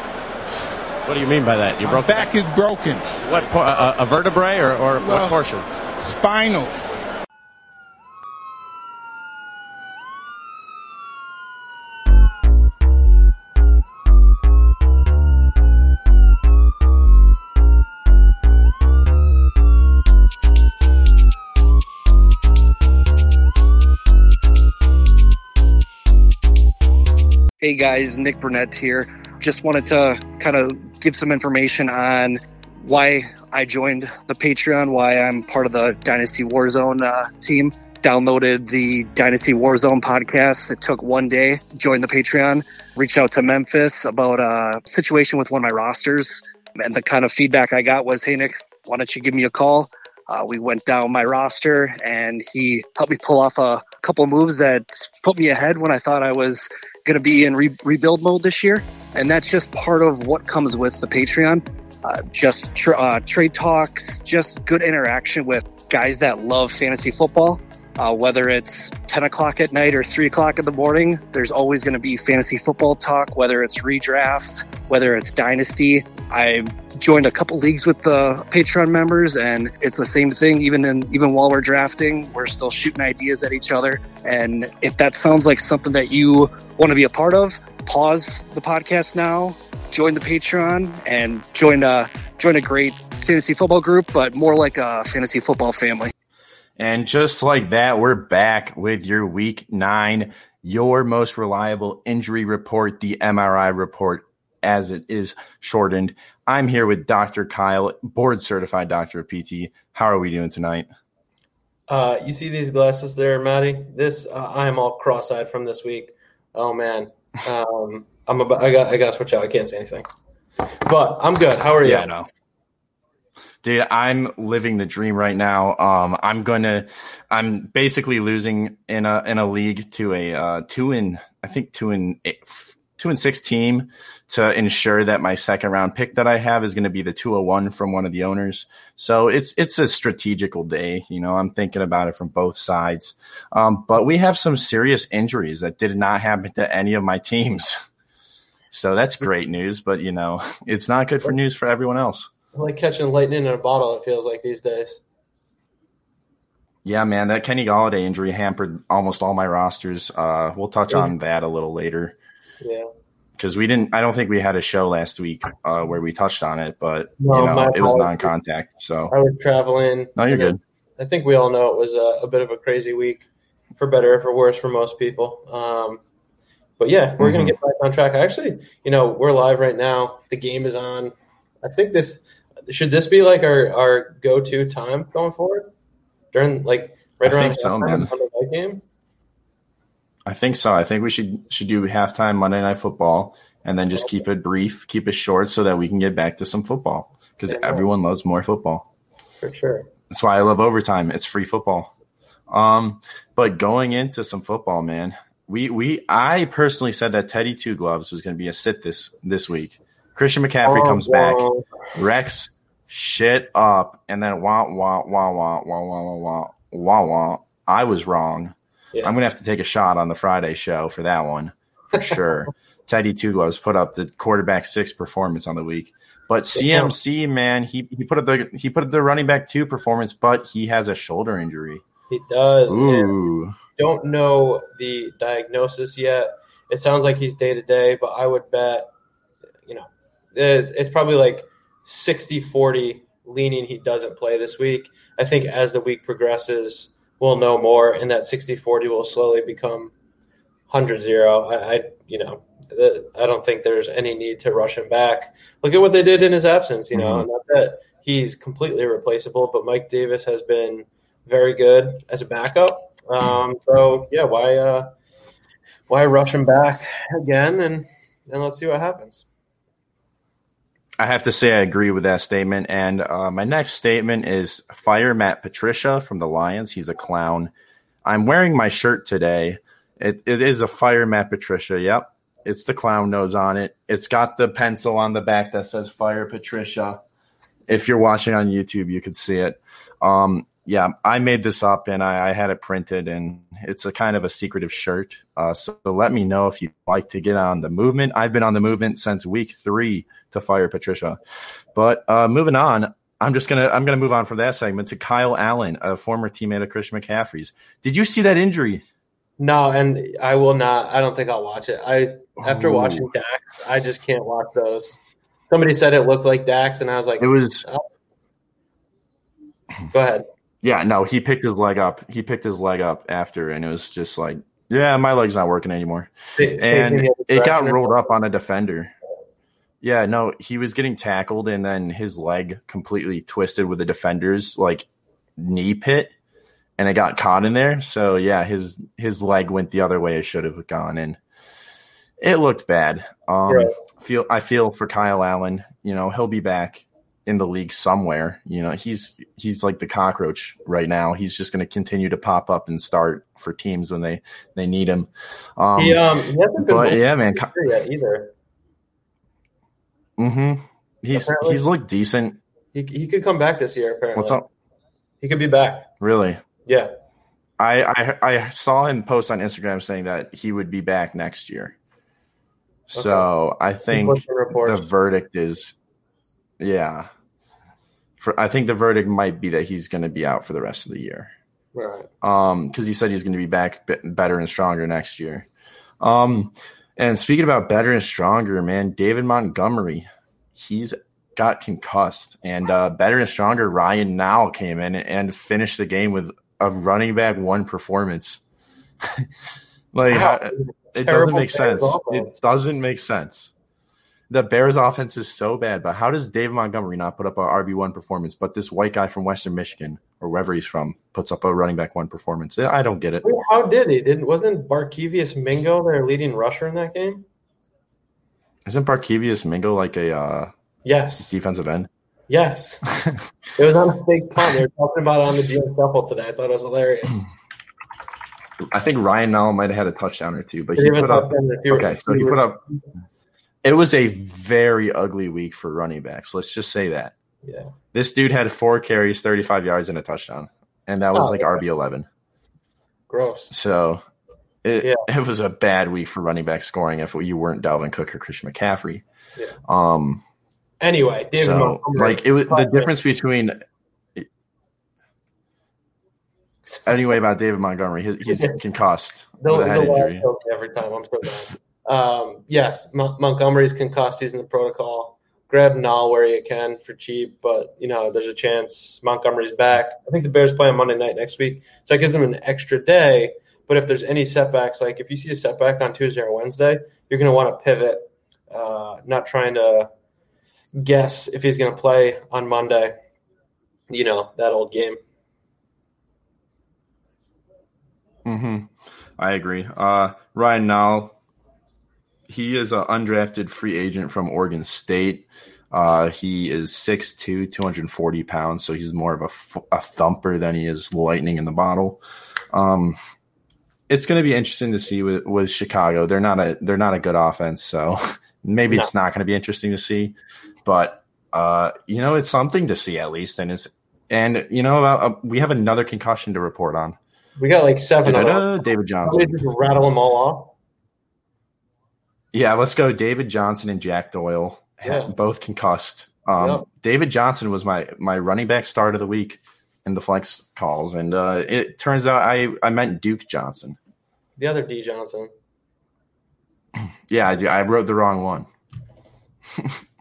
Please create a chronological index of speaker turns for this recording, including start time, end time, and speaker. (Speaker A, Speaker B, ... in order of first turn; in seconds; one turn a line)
Speaker A: 1.1-2.3
Speaker B: 1.8-3.1
Speaker A: 3.2-5.7
Speaker B: 5.0-6.7
Speaker C: 27.6-96.1
Speaker D: 96.8-110.9
Speaker E: 111.9-120.1
Speaker E: 120.8-122.1
Speaker D: 121.8-122.3
Speaker D: 123.6-147.8
Speaker D: 148.7-152.3
Speaker E: 152.6-155.0
Speaker D: 156.8-162.2
Speaker E: 162.6-162.9
Speaker D: 163.4-169.1
Speaker E: 167.2-168.3
Speaker E: 169.1-176.0
Speaker D: 170.2-170.6
Speaker E: 176.8-185.7
Speaker D: 177.2-177.6
Speaker E: 186.3-188.8
Speaker D: 187.2-188.1
Speaker D: 190.3-198.9
Speaker E: 197.5-197.8
Speaker E: 199.4-199.9
Speaker D: 200.1-201.9
Speaker D: 202.5-231.8
Speaker E: 210.7-211.7
Speaker E: 226.6-226.9
Speaker E: 232.1-233.2
Speaker D: 232.7-233.6
Speaker E: 233.8-238.9
Speaker E: 239.7-249.9
Speaker E: 250.7-264.9
Speaker D: 256.9-257.3
Speaker E: 265.9-269.3
Speaker D: 271.0-277.5
Speaker D: 278.0-287.0
Speaker D: 287.7-301.2
Speaker D: 301.7-308.8
Speaker E: 309.4-315.0
Speaker D: 312.4-313.1
Speaker E: 315.5-317.9
Speaker D: 317.2-317.7
Speaker E: 319.9-320.3
Speaker D: 320.6-328.9
Speaker E: 326.4-328.1
Speaker D: 329.8-336.1
Speaker D: 336.8-341.2
Speaker D: 342.2-356.0
Speaker E: 343.5-343.7
Speaker E: 355.8-358.3
Speaker D: 356.6-357.5
Speaker D: 360.2-362.4
Speaker E: 361.1-361.6
Speaker E: 362.7-364.4
Speaker D: 364.1-364.5
Speaker E: 365.2-365.9
Speaker D: 366.0-366.4
Speaker D: 367.6-371.8
Speaker D: 372.9-375.8
Speaker E: 373.0-373.3
Speaker E: 373.9-374.9
Speaker D: 376.6-377.1
Speaker D: 378.2-381.3
Speaker E: 381.7-382.1
Speaker D: 382.2-385.5
Speaker D: 386.0-398.4
Speaker D: 399.0-399.3
Speaker D: 399.9-403.5
Speaker E: 400.1-402.4
Speaker D: 404.3-413.2
Speaker E: 413.2-417.3
Speaker D: 418.6-420.5
Speaker E: 420.9-421.3
Speaker D: 421.2-421.9
Speaker E: 422.3-422.8
Speaker D: 423.0-423.2
Speaker E: 423.6-427.3
Speaker D: 428.7-432.6
Speaker E: 430.8-432.4
Speaker D: 433.6-437.1
Speaker E: 437.4-437.7
Speaker D: 437.9-442.1
Speaker E: 441.1-441.6
Speaker E: 443.1-443.5
Speaker D: 443.5-444.0
Speaker D: 444.6-449.0
Speaker D: 449.7-450.2
Speaker E: 450.8-452.9
Speaker D: 451.3-453.6
Speaker D: 456.9-460.3
Speaker E: 458.3-458.6
Speaker E: 459.4-479.9
Speaker E: 480.8-482.9
Speaker E: 483.9-485.0
Speaker D: 488.2-491.2
Speaker D: 492.3-502.0
Speaker D: 502.5-503.0
Speaker D: 503.9-517.0
Speaker E: 517.4-520.5
Speaker D: 518.0-519.4
Speaker D: 522.3-533.8
Speaker E: 524.8-525.1
Speaker E: 526.4-526.6
Speaker E: 534.4-535.3
Speaker D: 537.1-538.5
Speaker D: 539.5-539.8